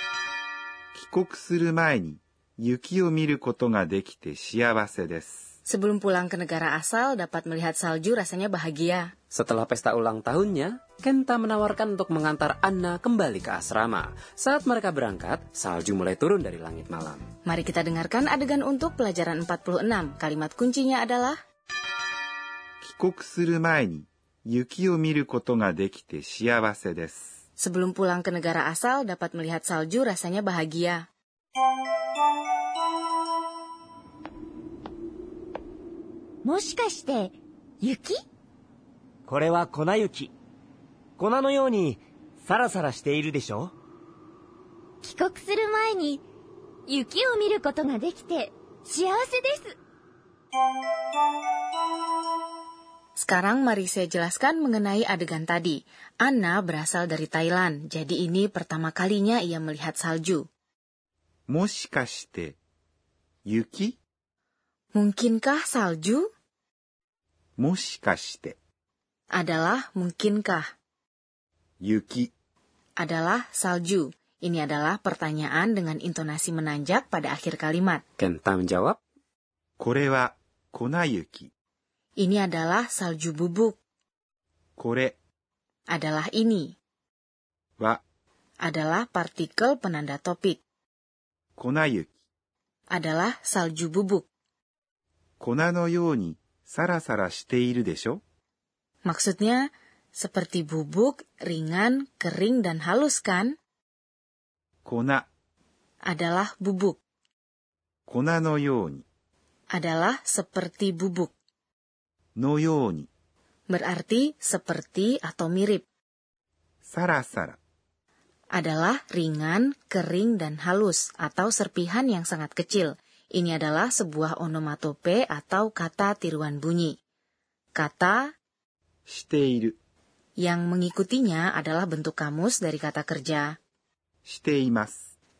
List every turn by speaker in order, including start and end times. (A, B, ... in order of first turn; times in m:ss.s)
0:00.9-0:05.4 A
0:05.7-0:09.1 B
0:09.3-0:17.2 C
0:17.4-0:21.4 B
0:22.8-0:27.2 A
0:27.6-0:31.0 B
0:36.4-0:38.2 D
0:39.2-0:40.3 E
0:41.2-0:43.7 E
0:45.0-0:46.2 D
0:46.9-0:49.8 D
0:53.2-1:00.4 B
1:01.5-1:02.6 A
1:03.5-1:04.0 A
1:04.9-1:06.3 B
1:07.6-1:08.6 A
1:09.3-1:10.7 B
1:11.8-1:12.3 A
1:13.0-1:18.0 B
1:18.2-1:19.0 C
1:19.8-1:21.5 A
1:22.2-1:23.8 B
1:24.8-1:25.1 A
1:25.9-1:26.8 B
1:28.6-1:30.6 B
1:31.6-1:32.1 A
1:32.9-1:34.3 B
1:35.4-1:38.2 A
1:39.0-1:43.6 B
1:44.8-1:45.3 A
1:46.0-1:47.0 B
1:48.1-1:49.0 A
1:49.7-1:51.3 B
1:52.4-1:53.1 A
1:53.7-1:55.8 B
1:56.8-1:57.6 A
1:58.5-2:07.0 B
2:07.7-2:08.3 B
2:09.1-2:09.8 A
2:10.4-2:13.6 B
2:14.2-2:15.0 A